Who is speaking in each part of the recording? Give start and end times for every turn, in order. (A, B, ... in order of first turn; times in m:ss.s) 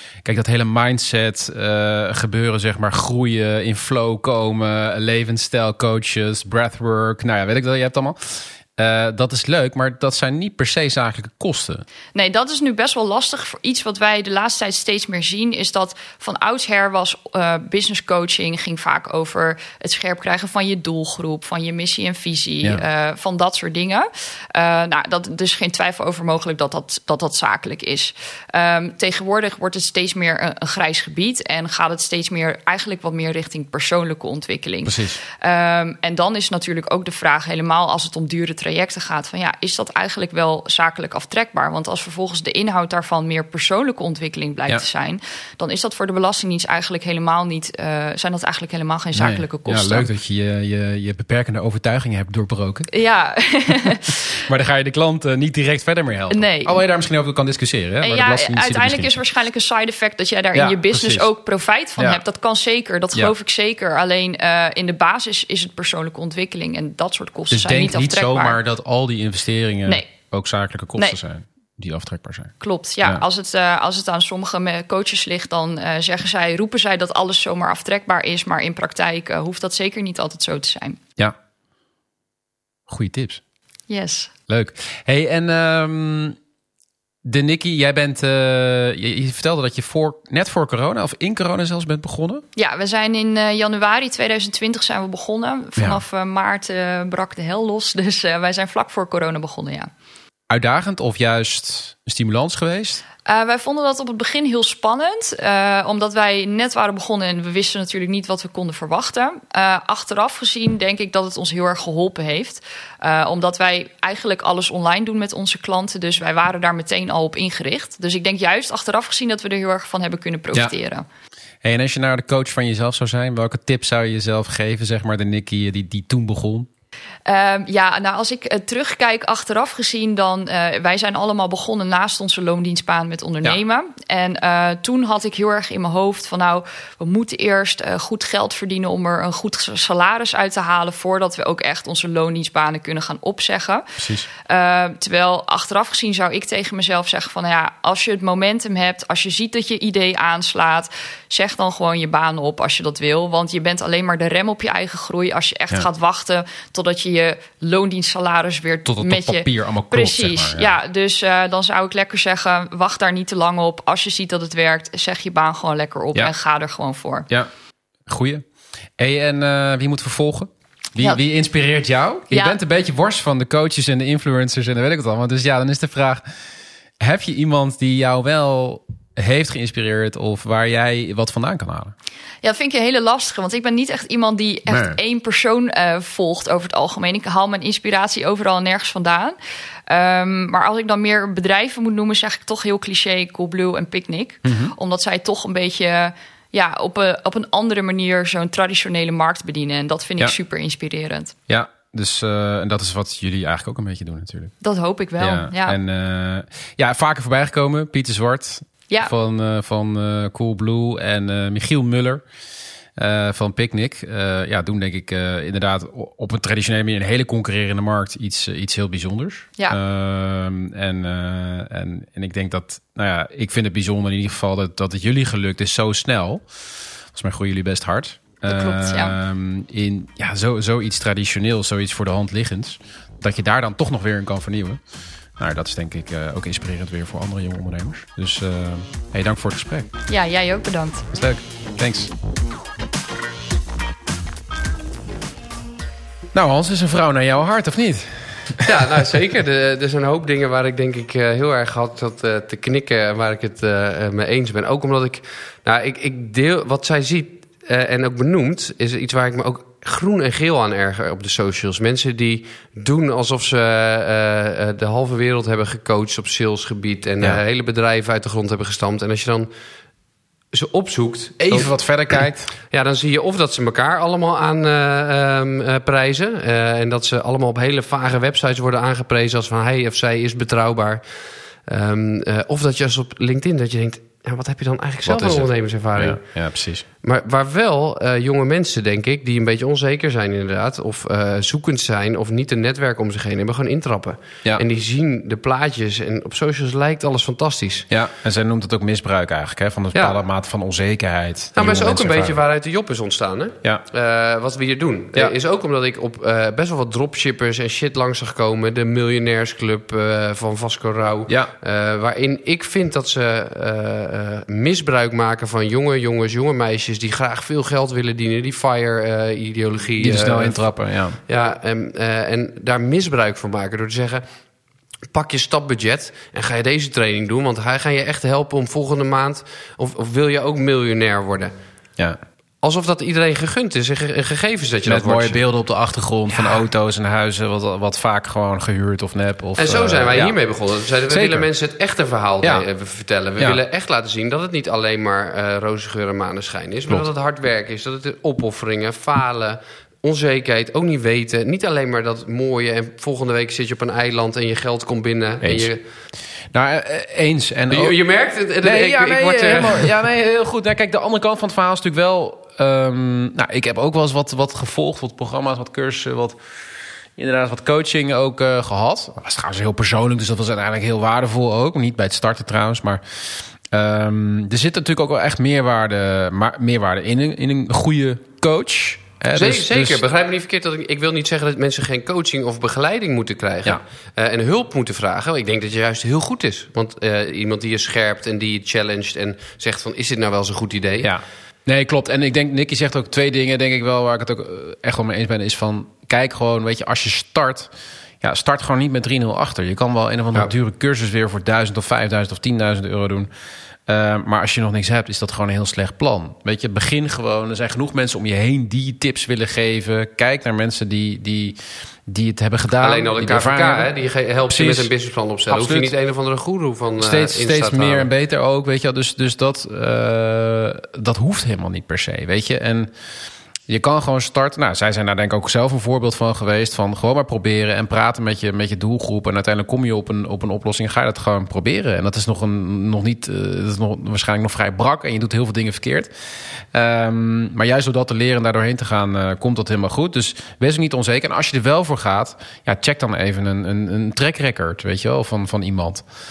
0:00.2-0:11.8 A
0:12.1-0:50.1 B
0:34.8-0:35.2 A
0:49.1-0:52.9 A
0:52.9-0:54.3 B
0:54.1-0:59.2 A
0:56.3-0:56.8 B
0:58.0-1:08.6 B
1:00.5-1:01.3 A
1:07.5-1:13.2 A
1:12.6-1:21.0 B
1:22.9-1:23.4 A
1:23.9-1:24.3 B
1:24.5-1:26.4 A
1:27.2-1:32.4 A
1:32.6-1:39.9 B
1:40.5-1:43.0 A
1:43.2-2:01.0 B
2:01.6-2:06.7 A
2:07.3-2:23.8 B
2:24.0-2:24.3 A
2:24.4-2:47.3 B
2:38.9-2:40.7 A
2:48.1-2:48.5 A
2:49.0-2:56.2 A
2:52.3-2:52.6 B
2:57.0-3:01.9 A
3:02.4-3:09.4 B
3:04.7-3:05.0 A
3:09.9-3:21.4 B
3:14.4-3:14.7 A
3:21.5-3:24.5 A
3:24.6-3:25.8 B
3:25.2-3:32.2 A
3:33.0-3:46.4 A
3:47.1-3:54.8 A
3:48.5-3:49.2 B
3:55.4-3:59.9 A
4:00.1-4:01.1 B
4:01.1-4:02.1 A
4:06.3-4:08.7 A
4:08.6-4:29.5 C
4:30.5-4:41.1 C
4:31.4-4:32.5 A
4:41.6-4:46.4 C
4:45.0-4:46.8 A
4:47.0-4:57.9 C
4:57.9-5:02.4 A
5:01.6-5:20.6 C
5:20.0-5:21.2 A
5:21.3-5:24.2 C
5:25.1-5:31.5 C
5:32.6-5:35.4 C
5:34.9-5:40.4 A
5:39.6-5:55.8 C
5:41.1-5:41.5 A
5:55.4-5:55.7 A
5:56.5-5:58.0 A
5:57.7-5:59.9 C
5:58.6-6:06.4 A
6:07.2-6:20.0 A
6:19.3-6:31.1 C
6:31.0-6:37.7 A
6:38.2-6:43.3 A
6:43.9-6:53.9 A
6:52.8-6:58.1 C
6:54.5-6:54.9 A
6:55.5-6:55.9 A
6:57.0-7:02.9 A
7:03.7-7:26.1 A